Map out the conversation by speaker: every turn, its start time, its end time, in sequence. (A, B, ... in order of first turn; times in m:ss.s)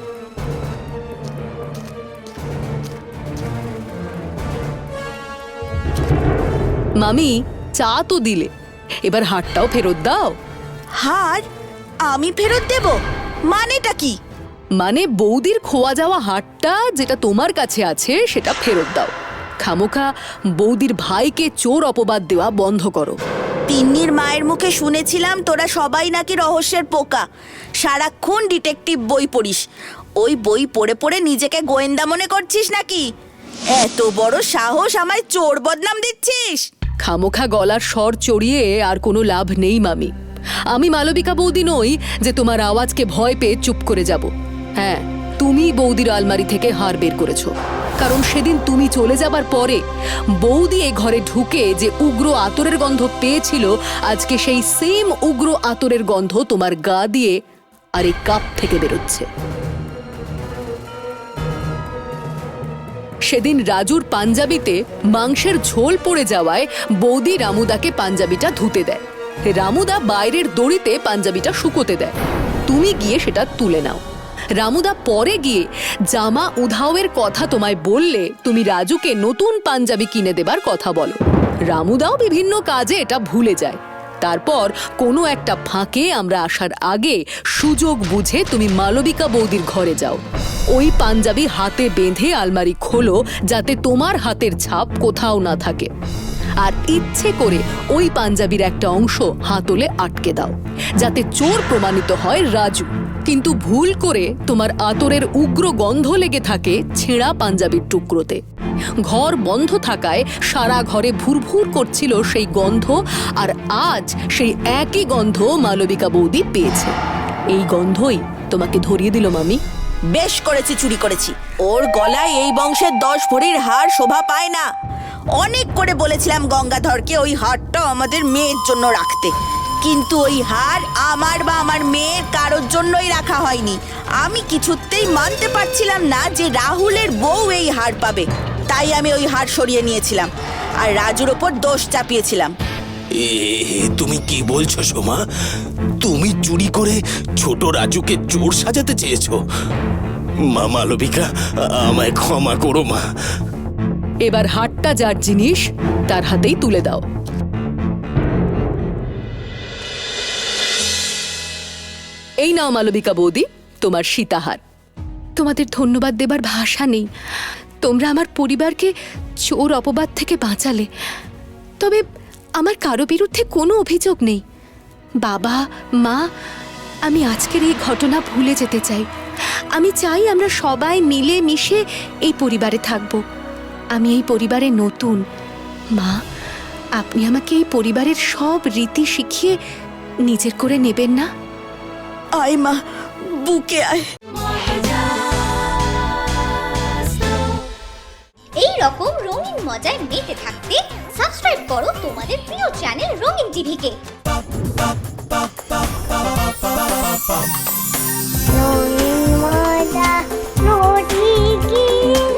0:07.0-0:08.5 A
0:09.0-0:10.4 A
0:11.0-0:11.4 B
0:12.1-0:14.2 B
0:14.8-0:23.2 A
0:23.7-0:27.2 B
0:27.8-0:29.6 B
0:30.2-0:33.1 B
0:33.7-0:36.7 B
0:37.0-0:40.1 A
0:40.7-0:49.8 A
0:50.4-0:57.4 A
0:58.0-0:59.3 A
1:03.3-1:12.2 A
1:12.7-1:14.0 A
1:14.6-1:35.9 A
1:36.6-1:48.4 A
1:49.0-1:57.0 A
1:57.5-1:59.6 A
2:00.1-2:04.7 B
2:05.4-2:20.3 B
2:20.8-2:22.5 B
2:23.1-2:25.2 C
2:26.0-2:29.4 C
2:30.5-2:33.0 C
2:34.2-2:37.0 A
2:42.4-2:44.6 A
2:45.4-2:47.1 A
2:47.8-2:48.9 A
2:49.5-2:50.9 A
2:51.8-2:52.0 A
2:52.6-2:54.4 A
2:55.2-2:56.3 A
2:57.1-2:59.1 A
2:59.7-3:03.2 A
3:04.0-3:05.2 A
3:06.0-3:06.2 A
3:07.0-3:09.6 A
3:10.3-3:11.3 A
3:12.4-3:14.1 B
3:18.6-3:24.0 D